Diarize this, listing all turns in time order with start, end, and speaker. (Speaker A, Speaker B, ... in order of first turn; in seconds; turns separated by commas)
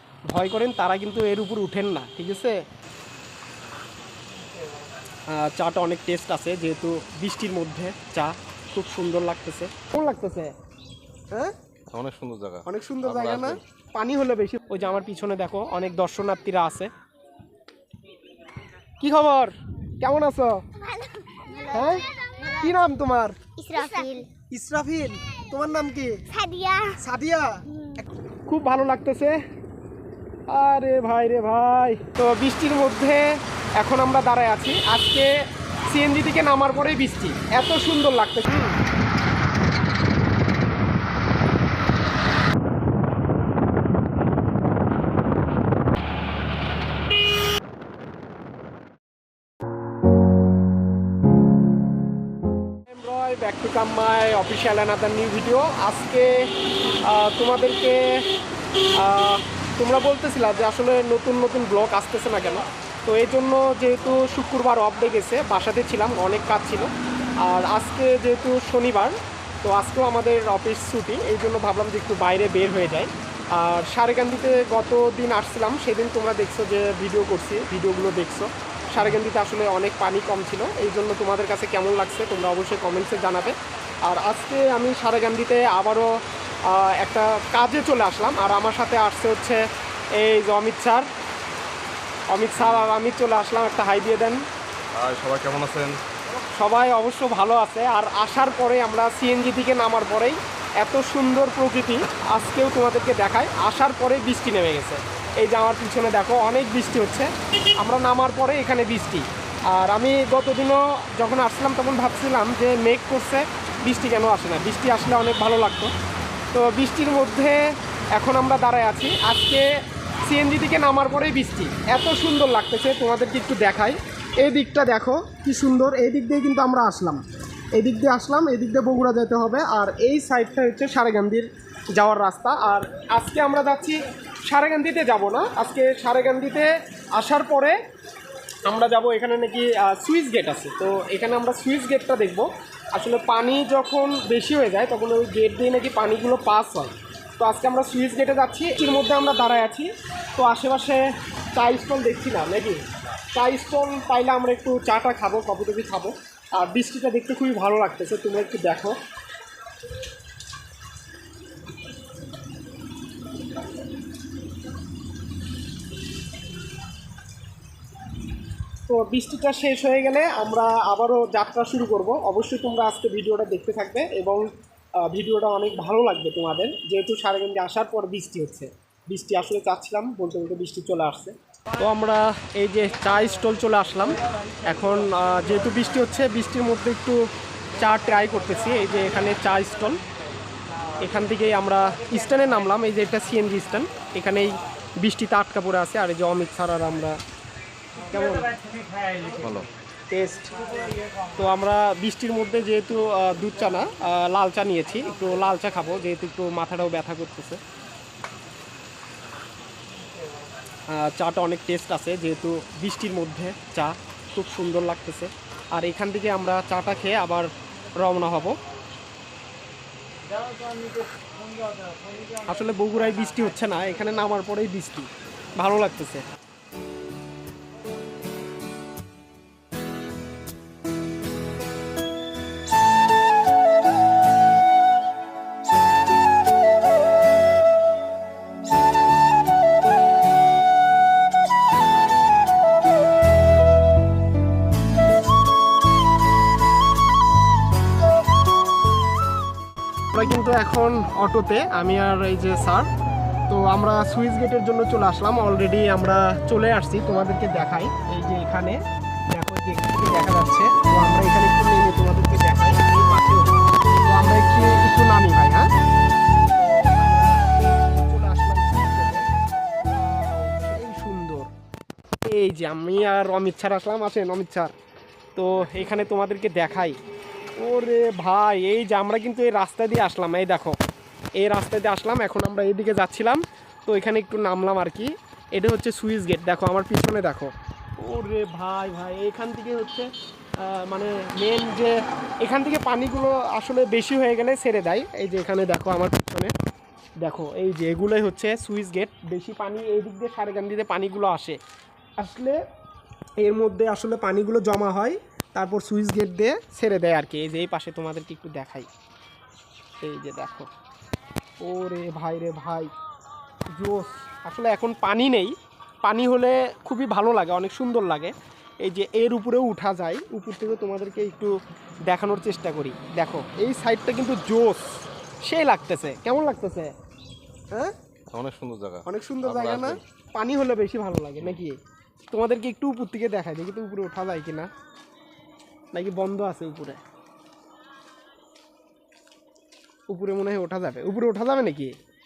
Speaker A: 0.3-2.6, Speaker A: 5.3-10.5, Speaker B: 11.9-13.6, Speaker A: 12.6-16.9, Speaker A: 19.0-20.6, Speaker C: 20.8-22.5, Speaker A: 21.6-23.4, Speaker C: 23.6-24.3, Speaker A: 24.5-26.2, Speaker C: 26.3-27.0, Speaker A: 27.0-29.4, Speaker C: 27.7-28.0, Speaker A: 30.5-38.8, Speaker A: 52.9-58.3, Speaker A: 58.9-86.1, Speaker A: 86.6-89.6, Speaker A: 90.1-91.1, Speaker A: 92.3-94.4, Speaker B: 94.9-96.0, Speaker A: 96.5-115.9, Speaker A: 116.5-119.7, Speaker A: 120.2-127.2, Speaker A: 127.7-137.8, Speaker A: 138.7-159.0, Speaker A: 168.9-190.0, Speaker A: 191.0-197.2, Speaker A: 198.0-198.7, Speaker B: 199.3-199.7, Speaker A: 200.1-200.6, Speaker A: 201.3-207.6, Speaker A: 210.9-218.6, Speaker A: 222.2-226.2, Speaker A: 250.1-252.9, Speaker A: 253.5-265.7, Speaker A: 266.6-269.3, Speaker A: 269.8-271.5, Speaker A: 272.2-274.7, Speaker A: 275.3-277.0, Speaker A: 277.6-280.8, Speaker A: 281.4-296.5, Speaker A: 297.2-301.6, Speaker A: 302.2-302.6, Speaker A: 303.4-308.9, Speaker A: 310.0-310.7, Speaker A: 311.6-312.9, Speaker A: 313.7-326.9, Speaker B: 328.3-330.0, Speaker A: 329.0-331.8, Speaker A: 332.3-334.7, Speaker A: 335.9-337.0, Speaker A: 340.1-341.9